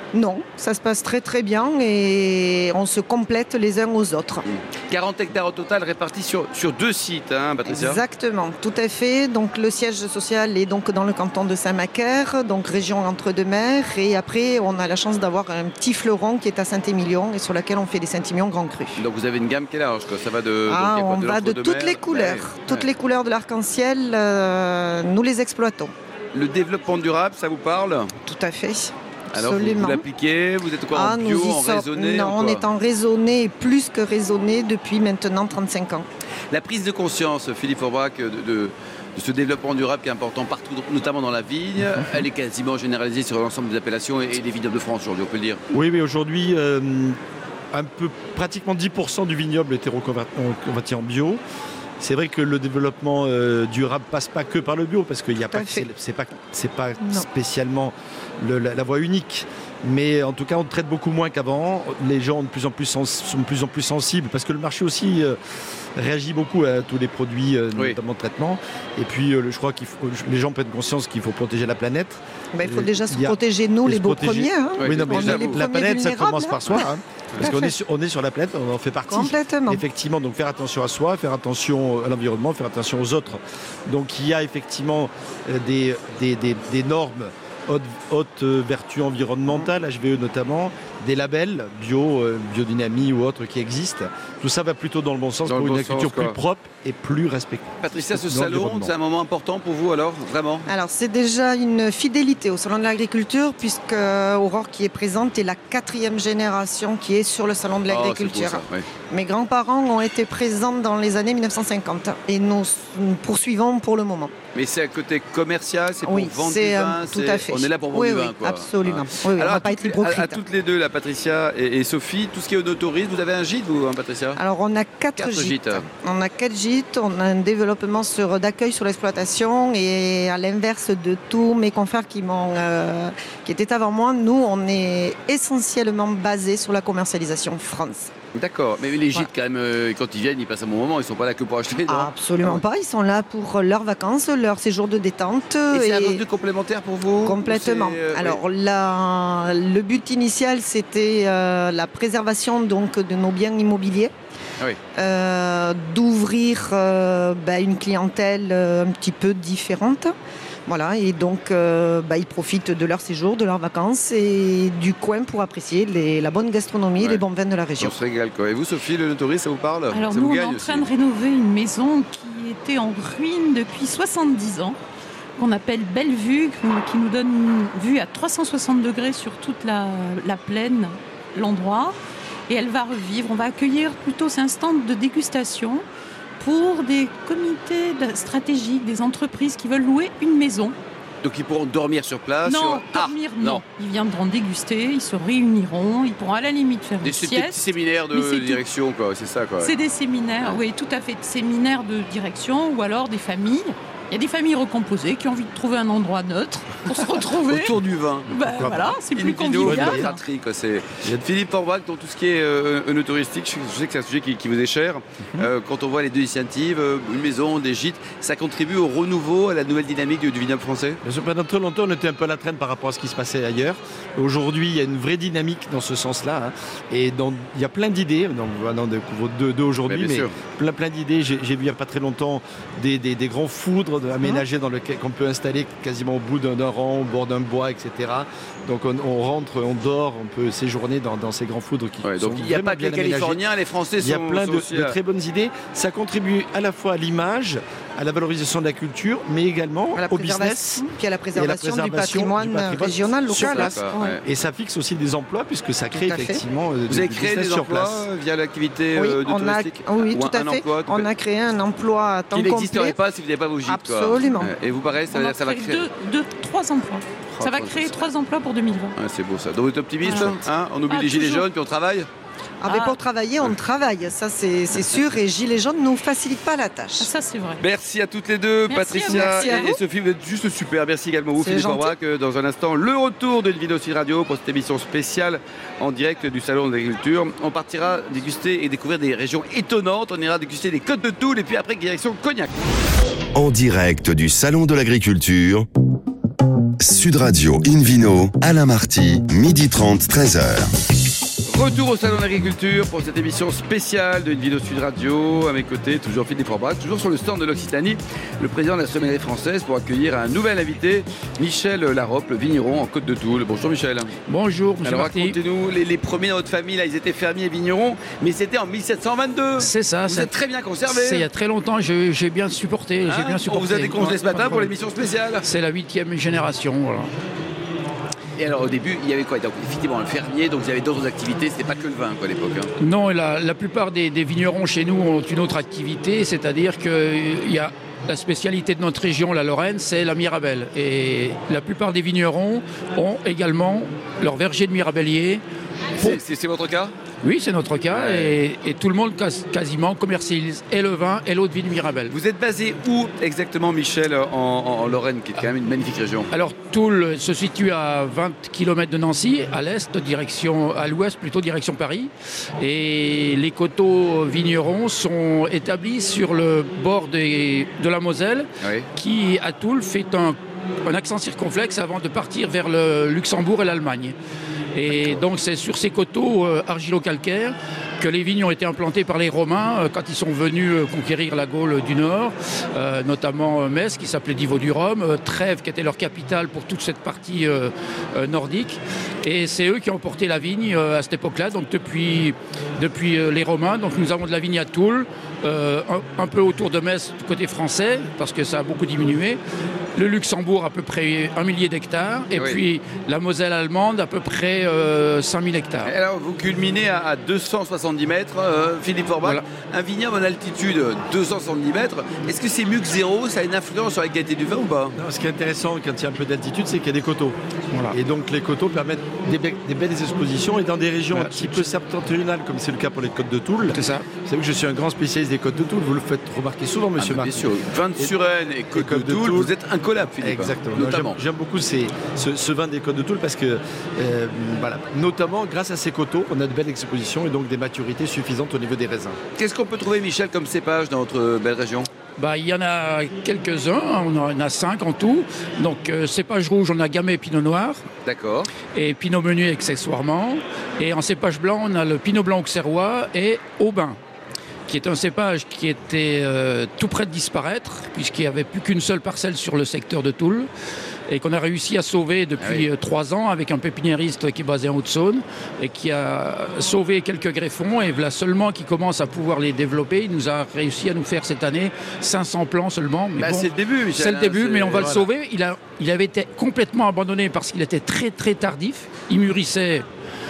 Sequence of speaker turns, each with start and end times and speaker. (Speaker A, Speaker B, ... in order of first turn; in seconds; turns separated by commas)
Speaker A: 0.1-4.4, Speaker B: 4.5-8.0, Speaker A: 7.7-19.0, Speaker B: 19.0-22.9, Speaker A: 20.7-25.9, Speaker B: 26.3-28.1, Speaker A: 28.3-30.0, Speaker B: 29.3-32.6, Speaker A: 30.9-36.1, Speaker B: 36.5-45.6, Speaker C: 45.7-47.2, Speaker C: 47.7-51.4, Speaker C: 52.0-65.4, Speaker A: 55.5-55.9, Speaker C: 66.0-98.9, Speaker A: 72.5-76.9, Speaker B: 74.8-75.6, Speaker A: 77.4-77.7, Speaker A: 79.1-79.8, Speaker B: 95.4-96.4, Speaker B: 97.8-100.7, Speaker A: 100.7-114.3, Speaker B: 107.9-108.9, Speaker B: 114.5-124.4, Speaker A: 116.0-120.4, Speaker A: 124.4-138.1, Speaker B: 125.2-125.8, Speaker B: 138.3-142.6, Speaker A: 141.9-146.2, Speaker B: 145.7-148.4, Speaker A: 147.2-154.1, Speaker A: 154.9-160.1, Speaker A: 160.7-167.9, Speaker B: 167.0-167.2, Speaker B: 167.8-170.9, Speaker D: 169.9-174.8, Speaker D: 175.4-181.9, Speaker D: 182.5-185.8, Speaker D: 186.4-190.8, Speaker B: 191.2-193.6, Speaker D: 192.4-197.6, Speaker B: 197.0-199.8, Speaker D: 198.1-198.6, Speaker D: 199.6-210.2, Speaker B: 206.9-208.3, Speaker C: 208.4-208.9, Speaker B: 209.1-221.0, Speaker C: 209.6-210.1, Speaker C: 221.0-243.4, Speaker B: 229.9-230.4, Speaker B: 242.0-244.9, Speaker C: 244.0-258.1, Speaker A: 249.9-254.2, Speaker B: 253.3-254.2, Speaker A: 255.9-256.4, Speaker B: 256.9-261.1, Speaker A: 258.9-263.0, Speaker B: 262.3-265.9, Speaker A: 263.6-264.5, Speaker D: 265.1-268.9, Speaker B: 267.3-268.0, Speaker B: 268.9-272.1, Speaker D: 270.0-271.4, Speaker A: 272.6-277.1, Speaker D: 272.7-273.0, Speaker D: 277.0-277.6, Speaker B: 277.6-292.5, Speaker D: 278.7-279.7, Speaker A: 278.8-279.8, Speaker A: 281.4-281.9, Speaker E: 293.3-295.7, Speaker E: 296.8-300.7, Speaker B: 301.5-314.1, Speaker F: 314.3-315.4, Speaker B: 314.8-321.3, Speaker F: 319.6-320.3, Speaker F: 320.9-324.7, Speaker B: 323.1-325.4, Speaker F: 325.4-327.1, Speaker B: 328.4-332.7, Speaker F: 332.8-345.4, Speaker B: 346.0-346.9, Speaker F: 347.2-352.1, Speaker B: 347.9-348.4, Speaker B: 352.1-356.3, Speaker F: 356.3-374.1, Speaker B: 368.6-368.9, Speaker F: 374.8-399.4, Speaker B: 374.9-375.2, Speaker F: 399.9-405.9, Speaker B: 402.3-402.6, Speaker B: 405.8-414.9, Speaker C: 414.9-417.4, Speaker C: 417.9-428.1, Speaker F: 421.1-421.6, Speaker F: 423.7-424.1, Speaker B: 427.0-431.2, Speaker C: 428.8-429.5, Speaker C: 430.2-439.2, Speaker B: 439.4-441.9, Speaker F: 442.2-447.8, Speaker B: 448.1-448.5, Speaker F: 448.7-454.0, Speaker F: 454.7-460.5, Speaker F: 461.1-479.8, Speaker B: 462.4-462.7, Speaker B: 473.2-475.1